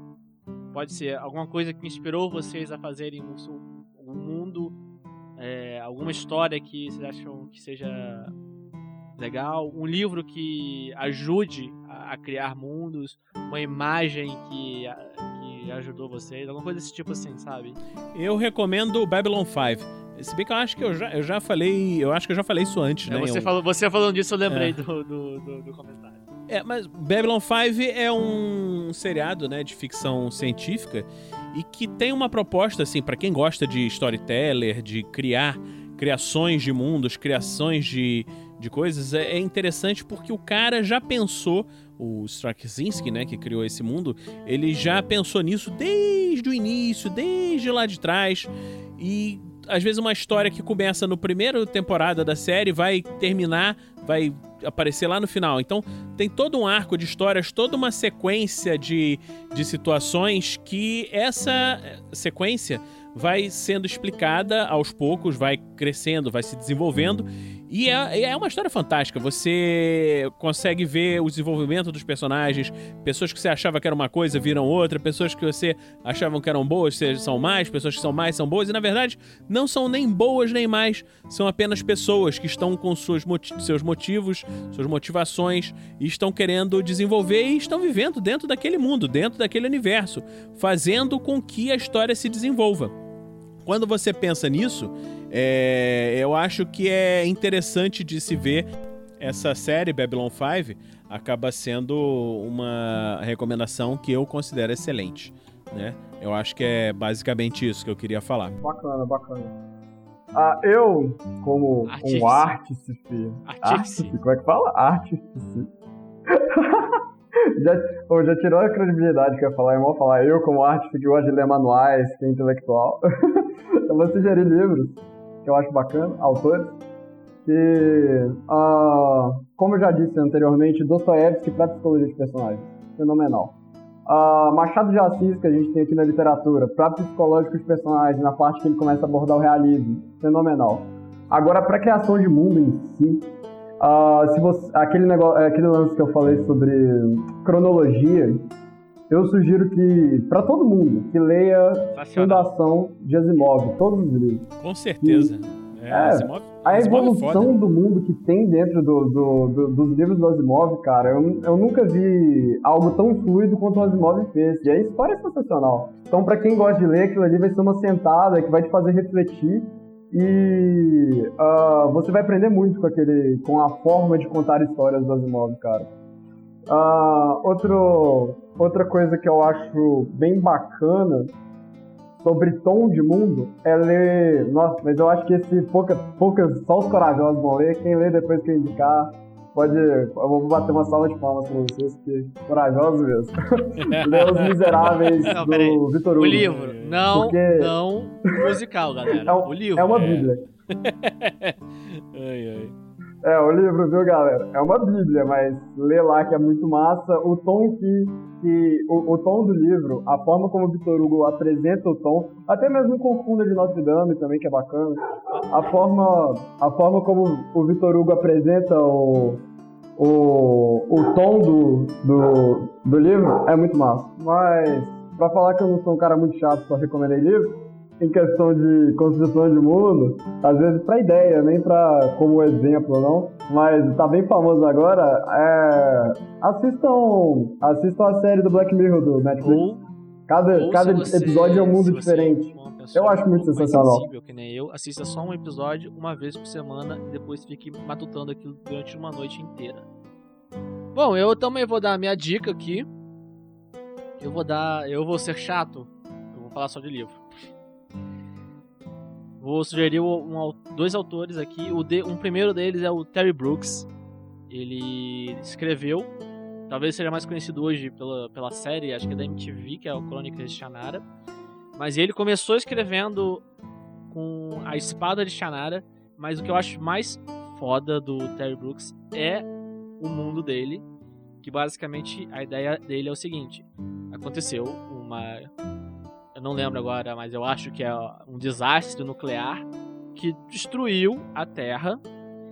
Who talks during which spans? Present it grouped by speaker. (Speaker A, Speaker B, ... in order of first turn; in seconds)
Speaker A: 0.7-4.8, 5.4-8.3, 9.2-17.8, 23.1-26.2, 111.9-112.5, 113.4-114.2, 151.9-152.5, 195.3-200.2, 239.4-239.8, 240.5-249.8, 250.9-252.9, 254.2-257.2, 259.4-263.9, 264.5-266.1, 266.7-271.0, 271.8-273.4, 274.1-279.5, 280.0-280.9, 281.4-285.5, 286.3-292.0
Speaker B: 18.1-23.5, 24.5-24.8, 26.5-92.9, 93.6-98.7, 99.2-108.5, 154.6-157.6, 193.8-195.2, 196.3-197.0, 199.9-202.7
Speaker C: 108.6-109.5, 110.3-115.7, 116.3-117.0, 117.5-126.8, 127.4-133.5, 134.1-148.5, 149.1-154.5, 155.0-155.3, 155.9-175.9, 176.7-181.3, 182.2-196.5, 197.1-197.8, 199.2-200.4, 203.2-219.4, 220.0-239.7, 240.3-244.1